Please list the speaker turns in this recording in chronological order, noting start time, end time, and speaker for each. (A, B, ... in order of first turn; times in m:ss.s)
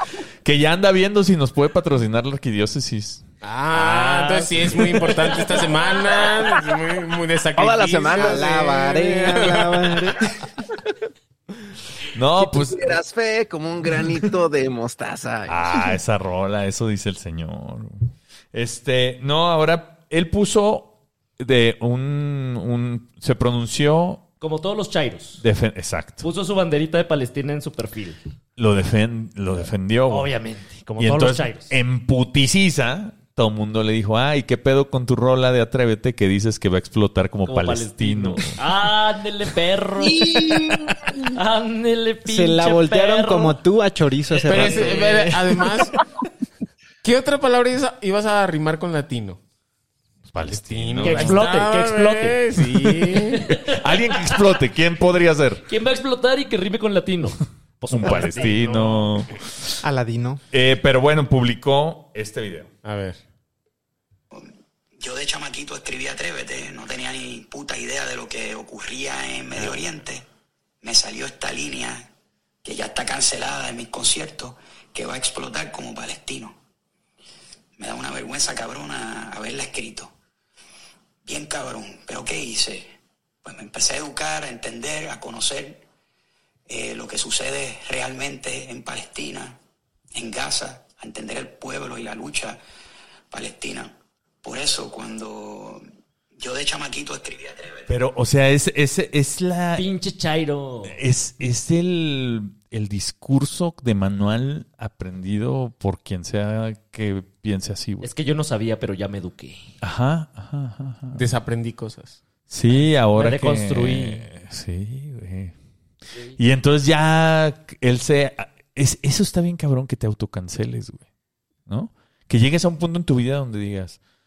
0:00.4-0:03.2 A
0:03.4-0:10.1 B
0:03.7-0:06.5 C
0:07.6-0:08.4 D
0:08.2-0:10.2 E
0:12.1-0:13.0 A
0:12.4-0:15.9 D
0:15.5-0:24.2 A
0:24.4-0:25.4 C
0:25.4-0:26.2 A
0:26.2-0:28.2 C
0:28.6-0:30.3 A
0:30.1-0:31.7 C
0:31.0-0:38.6 A
0:37.5-0:43.6 C
0:40.3-0:40.8 D
0:42.3-0:45.4 E
0:44.3-0:45.4 C
0:44.4-0:46.0 B
0:47.0-0:49.4 B
0:50.3-0:51.5 A
0:50.4-0:53.5 B
0:51.0-0:54.3 C
0:53.6-0:55.6 A
0:55.7-0:59.1 C
0:57.9-0:59.7 A
0:59.8-1:00.4 E
1:00.5-1:02.7 A
1:02.8-1:03.2 B
1:04.3-1:10.3 F
1:10.8-1:12.1 F
1:12.6-1:16.6 F
1:17.8-1:20.1 F
1:21.2-1:25.8 F
1:26.7-1:29.6 F
1:30.2-1:32.6 F
1:33.3-1:35.8 F
1:36.4-1:37.9 F
1:37.9-1:39.8 A
1:39.8-1:41.0 C
1:40.9-1:48.1 A
1:48.0-1:49.7 C
1:49.8-1:51.3 A
1:51.2-1:52.2 B
1:52.5-1:55.5 A
1:52.7-1:54.2 C
1:56.4-2:01.0 A
2:01.7-2:04.0 A